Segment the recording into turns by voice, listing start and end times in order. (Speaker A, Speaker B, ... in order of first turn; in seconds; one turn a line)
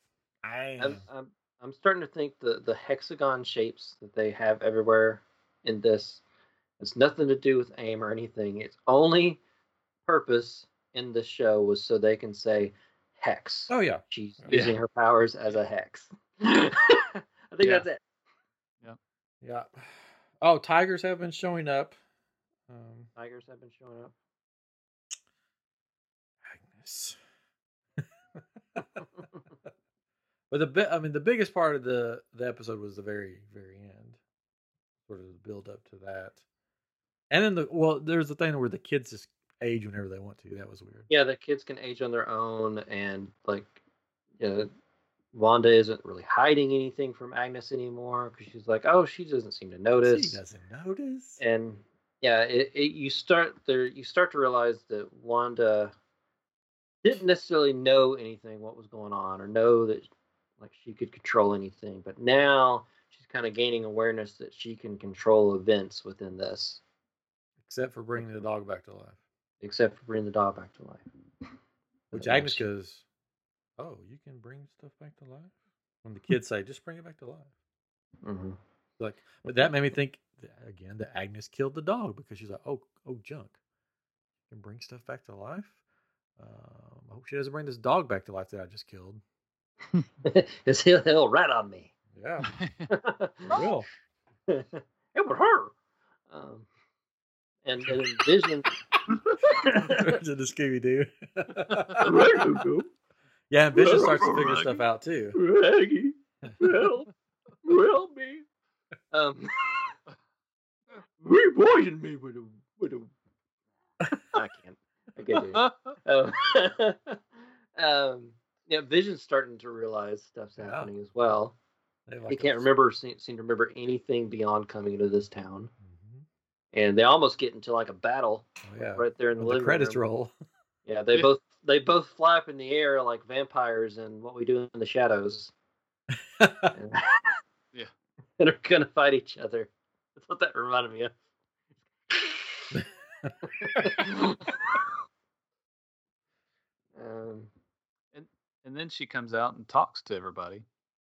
Speaker A: 0.4-1.0
Speaker B: 0.8-6.2
Speaker B: 6.8-9.4
Speaker B: 10.1-18.0
Speaker A: 13.7-14.5
Speaker C: 14.5-14.8
Speaker A: 19.4-21.9
Speaker A: 22.7-23.1
Speaker B: 23.1-24.1
Speaker A: 26.4-27.1
Speaker A: 28.0-29.1
Speaker A: 30.5-34.2
Speaker A: 35.1-36.4
Speaker A: 37.3-41.1
Speaker B: 41.1-43.8
Speaker B: 44.4-44.7
Speaker B: 45.3-50.4
Speaker A: 50.0-51.4
Speaker B: 51.4-55.9
Speaker B: 57.0-60.1
Speaker B: 60.6-66.8
Speaker A: 67.6-69.2
Speaker B: 69.6-71.0
Speaker B: 72.1-72.6
Speaker A: 72.1-73.0
Speaker A: 73.8-77.5
Speaker B: 78.2-78.6
Speaker A: 79.0-83.5
Speaker A: 84.5-85.7
Speaker A: 86.4-89.2
Speaker B: 90.2-91.9
Speaker A: 92.1-92.5
Speaker C: 92.4-92.9
Speaker B: 92.9-93.6
Speaker A: 93.5-93.9
Speaker B: 94.5-95.7
Speaker B: 96.3-96.7
Speaker B: 97.6-98.7
Speaker B: 99.2-100.2
Speaker A: 99.5-102.4
Speaker C: 101.7-102.4
Speaker B: 102.0-102.9
Speaker A: 103.5-105.4
Speaker B: 103.7-104.8
Speaker B: 105.3-107.1
Speaker B: 107.6-108.4
Speaker B: 109.1-109.8
Speaker B: 111.2-113.1
Speaker B: 114.3-117.2
Speaker C: 115.3-115.9
Speaker B: 117.8-121.5
Speaker A: 120.6-120.9
Speaker A: 122.1-122.7
Speaker B: 122.3-125.7
Speaker A: 125.8-126.2
Speaker B: 126.7-130.0
Speaker A: 128.6-130.3
Speaker B: 130.8-135.5
Speaker A: 136.4-136.7
Speaker B: 136.7-137.4
Speaker B: 138.4-141.1
Speaker B: 142.1-142.7
Speaker A: 142.7-144.1
Speaker B: 143.4-144.8
Speaker B: 146.9-147.5
Speaker C: 148.1-150.7